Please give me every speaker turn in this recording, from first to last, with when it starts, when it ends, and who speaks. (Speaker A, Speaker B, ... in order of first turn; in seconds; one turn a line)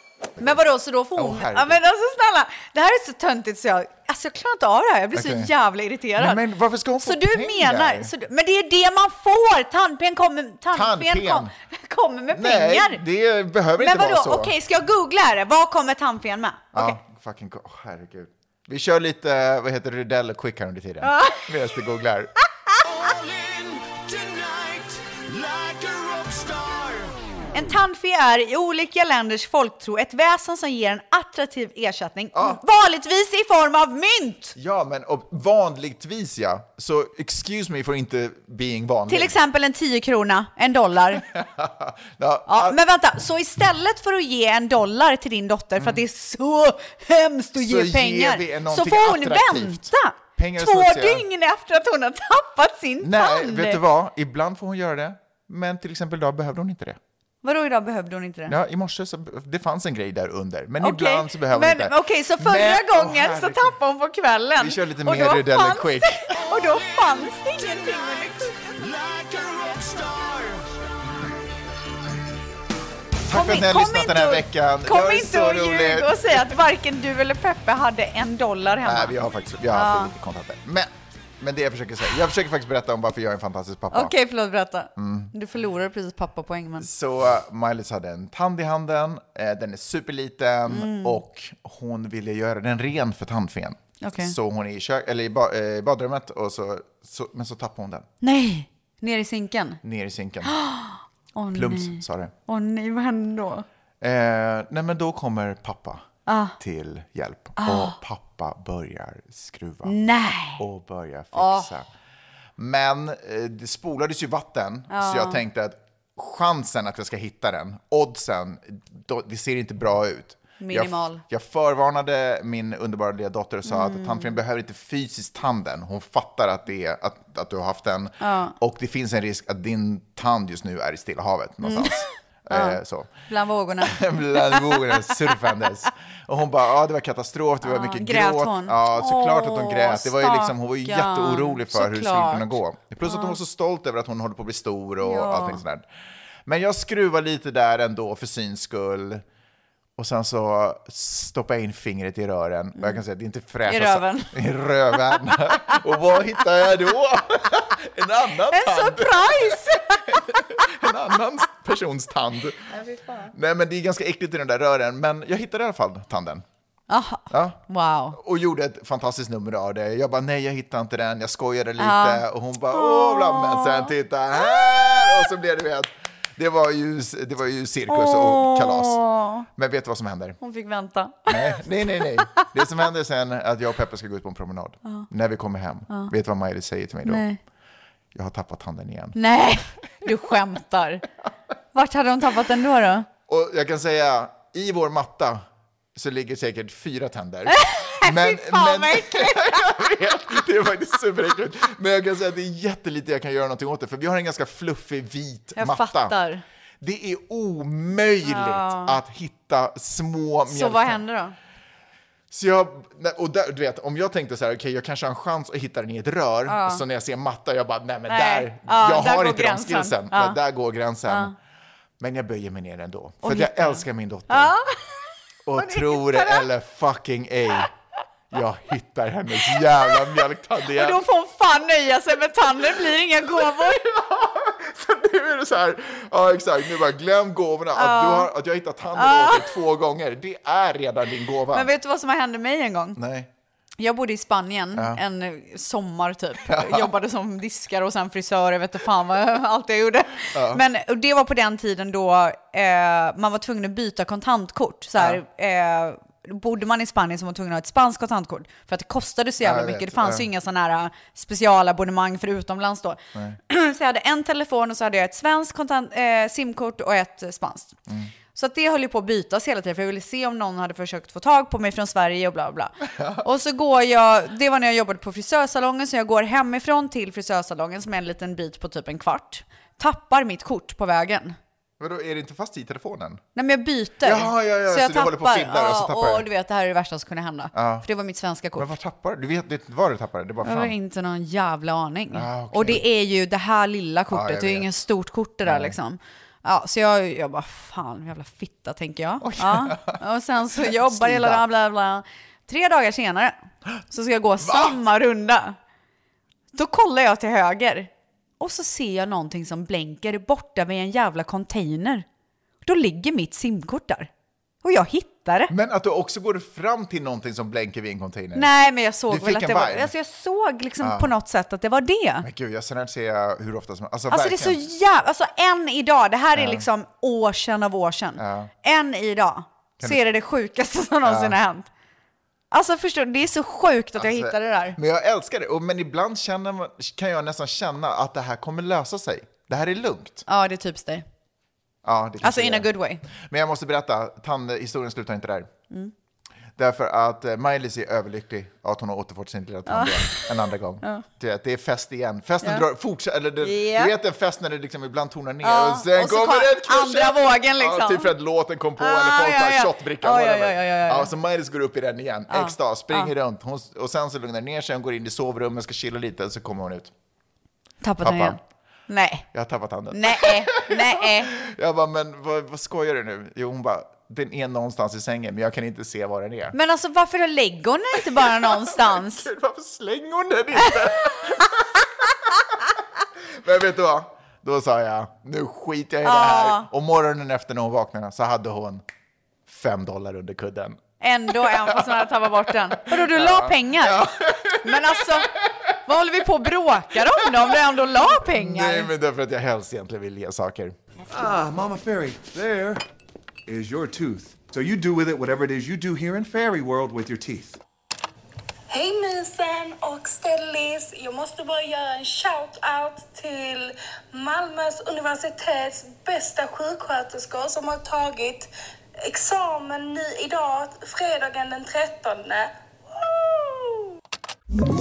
Speaker A: 0.4-6.4
Speaker B: 1.1-1.8
Speaker B: 5.1-5.5
Speaker B: 6.2-8.1
Speaker A: 7.0-13.0
Speaker B: 10.7-11.5
Speaker B: 12.3-14.5
Speaker A: 13.8-17.0
Speaker B: 16.7-22.3
Speaker A: 21.0-21.5
Speaker C: 22.8-27.2
Speaker A: 27.5-34.5
Speaker B: 32.3-32.6
Speaker B: 34.5-39.4
Speaker A: 39.1-41.2
Speaker B: 41.1-42.8
Speaker A: 42.5-53.8
Speaker B: 47.5-51.2
Speaker B: 53.0-57.0
Speaker A: 57.4-58.5
Speaker B: 58.5-63.8
Speaker A: 60.8-68.5
Speaker B: 64.6-66.3
Speaker C: 66.4-70.8
Speaker B: 73.3-76.5
Speaker A: 73.3-79.2
Speaker B: 78.8-84.1
Speaker A: 79.7-80.1
Speaker A: 83.9-86.9
Speaker B: 85.0-85.3
Speaker B: 86.8-98.1
Speaker A: 90.7-91.2
Speaker A: 94.0-94.3
Speaker A: 98.2-99.8
Speaker B: 99.8-100.5
Speaker A: 100.4-103.7
Speaker B: 101.5-102.3
Speaker B: 104.0-106.0
Speaker A: 106.3-106.5
Speaker B: 106.6-109.9
Speaker A: 107.6-108.0
Speaker A: 109.8-110.6
Speaker B: 110.6-111.9
Speaker A: 111.3-111.7
Speaker B: 112.6-133.2
Speaker A: 114.9-115.4
Speaker A: 120.6-121.2
Speaker A: 123.7-124.4
Speaker A: 128.2-128.5
Speaker A: 131.6-134.9
Speaker B: 133.8-145.8
Speaker A: 137.6-142.5
Speaker A: 143.0-143.4
Speaker A: 145.0-145.6
Speaker B: 146.4-149.2
Speaker B: 150.0-162.7
Speaker A: 153.7-154.3
Speaker A: 158.5-160.7
Speaker A: 162.7-163.3
Speaker B: 163.3-166.4
Speaker A: 166.9-168.2
Speaker B: 167.3-167.6
Speaker B: 168.1-180.4
Speaker A: 171.8-173.9
Speaker A: 177.9-179.5
Speaker A: 180.4-182.5
Speaker B: 181.3-187.3
Speaker A: 187.1-187.4
Speaker B: 188.1-189.2
Speaker A: 189.1-191.0
Speaker A: 191.7-193.1
Speaker B: 193.3-195.4
Speaker B: 195.9-206.2
Speaker A: 197.5-199.6
Speaker A: 205.6-206.4
Speaker B: 206.8-211.0
Speaker A: 208.2-209.0
Speaker A: 210.4-211.3
Speaker B: 212.3-221.3
Speaker A: 216.5-216.8
Speaker A: 218.1-220.4
Speaker A: 221.1-221.3
Speaker B: 222.0-224.6
Speaker A: 223.2-224.8
Speaker B: 225.4-227.7
Speaker A: 225.5-226.4
Speaker B: 228.3-231.0
Speaker A: 229.9-230.1
Speaker A: 230.7-233.8
Speaker B: 233.3-241.7
Speaker A: 237.7-238.3
Speaker A: 238.9-239.5
Speaker A: 241.5-243.0
Speaker B: 242.9-243.3
Speaker A: 243.8-267.8
Speaker B: 244.7-245.0
Speaker B: 246.5-246.9
Speaker B: 250.3-250.6
Speaker B: 259.4-260.3
Speaker A: 268.3-281.4
Speaker B: 272.9-273.2
Speaker B: 281.8-283.2
Speaker A: 283.3-288.7
Speaker B: 284.0-286.3
Speaker B: 287.5-287.9
Speaker B: 288.6-290.7
Speaker A: 290.4-303.4
Speaker B: 292.1-292.8
Speaker B: 294.1-294.7
Speaker B: 295.4-295.8
Speaker B: 299.2-300.0
Speaker B: 300.5-301.4
Speaker A: 303.9-305.6
Speaker B: 304.4-304.8
Speaker A: 306.5-312.1
Speaker A: 312.6-314.1
Speaker A: 314.6-315.5
Speaker B: 315.5-318.5
Speaker A: 318.3-322.2
Speaker B: 319.1-319.9
Speaker B: 320.8-321.1
Speaker B: 322.2-324.6
Speaker A: 324.1-331.7
Speaker B: 326.3-326.6
Speaker B: 328.2-328.5
Speaker B: 331.0-331.4
Speaker A: 332.5-334.8
Speaker B: 333.9-340.2
Speaker A: 340.3-341.1
Speaker B: 341.8-345.5
Speaker A: 342.2-343.0
Speaker B: 346.6-366.9
Speaker A: 349.7-350.3
Speaker A: 353.4-353.9
Speaker A: 355.4-358.1
Speaker A: 358.8-361.1
Speaker A: 362.3-363.1
Speaker A: 367.8-369.2
Speaker B: 368.0-368.4
Speaker B: 369.3-376.6
Speaker A: 369.9-371.3
Speaker A: 376.5-379.3
Speaker B: 378.1-381.8
Speaker B: 383.3-388.8
Speaker A: 386.0-386.7
Speaker B: 389.5-395.7
Speaker A: 391.0-398.9
Speaker B: 396.9-400.8
Speaker D: 401.1-402.8
Speaker D: 403.5-407.6
Speaker E: 408.7-418.5
Speaker E: 419.0-422.5